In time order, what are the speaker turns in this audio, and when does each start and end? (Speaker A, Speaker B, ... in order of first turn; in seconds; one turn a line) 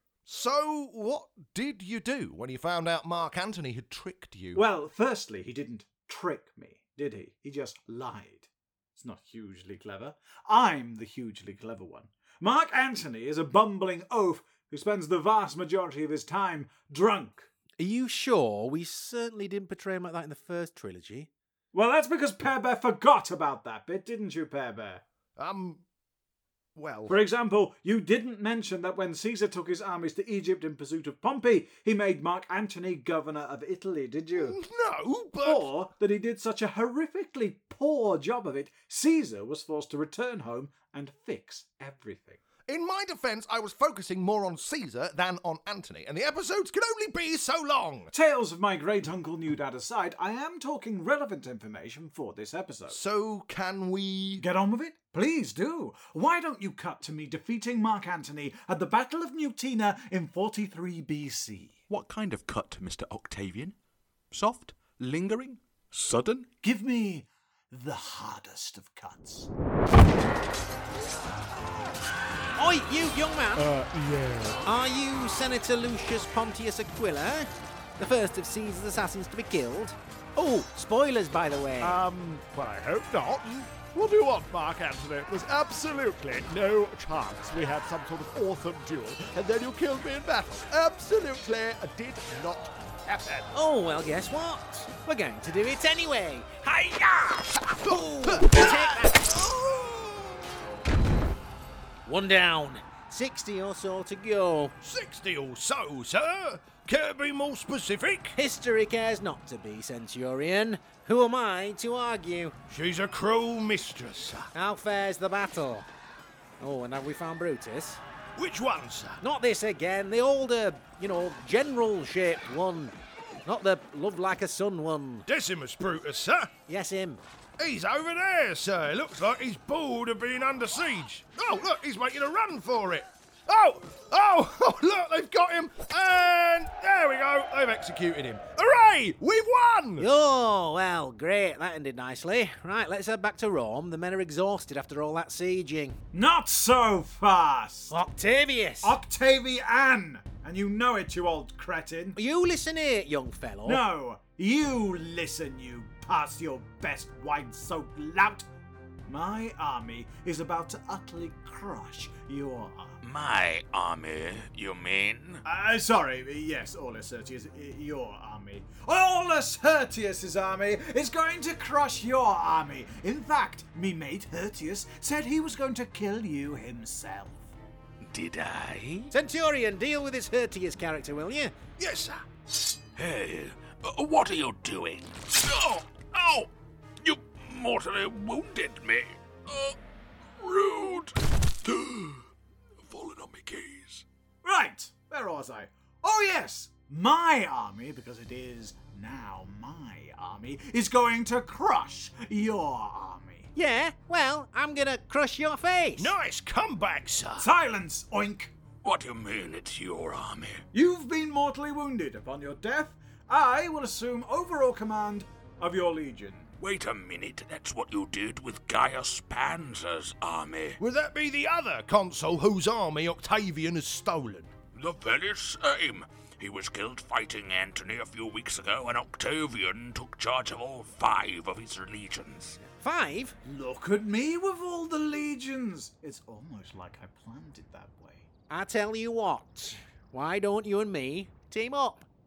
Speaker A: 0.3-4.6
Speaker B: 4.5-17.5
Speaker C: 17.8-21.3
Speaker B: 21.7-25.0
Speaker A: 25.4-25.8
Speaker A: 26.8-27.2
Speaker B: 27.1-34.6
Speaker A: 34.4-35.7
Speaker B: 35.5-42.4
Speaker A: 42.7-48.1
Speaker B: 48.1-53.0
Speaker A: 52.9-54.5
Speaker B: 54.4-61.8
Speaker D: 61.9-63.8
Speaker D: 64.3-66.5
Speaker B: 66.6-69.5
Speaker C: 72.6-73.7
Speaker A: 73.6-74.7
Speaker C: 74.7-82.0
Speaker A: 81.8-93.5
Speaker C: 93.5-99.3
Speaker A: 97.8-100.6
Speaker C: 102.0-104.8
Speaker A: 104.8-108.4
Speaker C: 108.4-112.6
Speaker A: 112.7-114.5
Speaker C: 114.5-115.9
Speaker C: 116.6-118.0
Speaker A: 118.4-119.2
Speaker C: 119.2-125.3
Speaker A: 125.3-126.5
Speaker C: 126.7-127.2
Speaker A: 127.6-140.1
Speaker C: 140.0-146.0
Speaker B: 146.1-148.0
Speaker C: 147.9-149.0
Speaker B: 148.8-152.2
Speaker C: 152.2-153.8
Speaker B: 153.7-158.5
Speaker B: 159.1-163.0
Speaker D: 163.0-165.4
Speaker B: 165.4-177.5
Speaker D: 178.0-179.1
Speaker C: 179.1-181.5
Speaker A: 181.8-182.2
Speaker D: 183.0-186.5
Speaker D: 187.0-189.8
Speaker D: 190.4-192.3
Speaker D: 192.8-194.1
Speaker B: 194.4-203.5
Speaker C: 203.6-206.1
Speaker A: 206.0-207.5
Speaker B: 207.4-208.5
Speaker D: 208.8-210.6
Speaker B: 210.7-216.5
Speaker D: 216.6-220.8
Speaker A: 220.8-224.5
Speaker D: 224.7-232.6
Speaker C: 232.6-233.3
Speaker B: 233.4-238.3
Speaker C: 238.5-242.1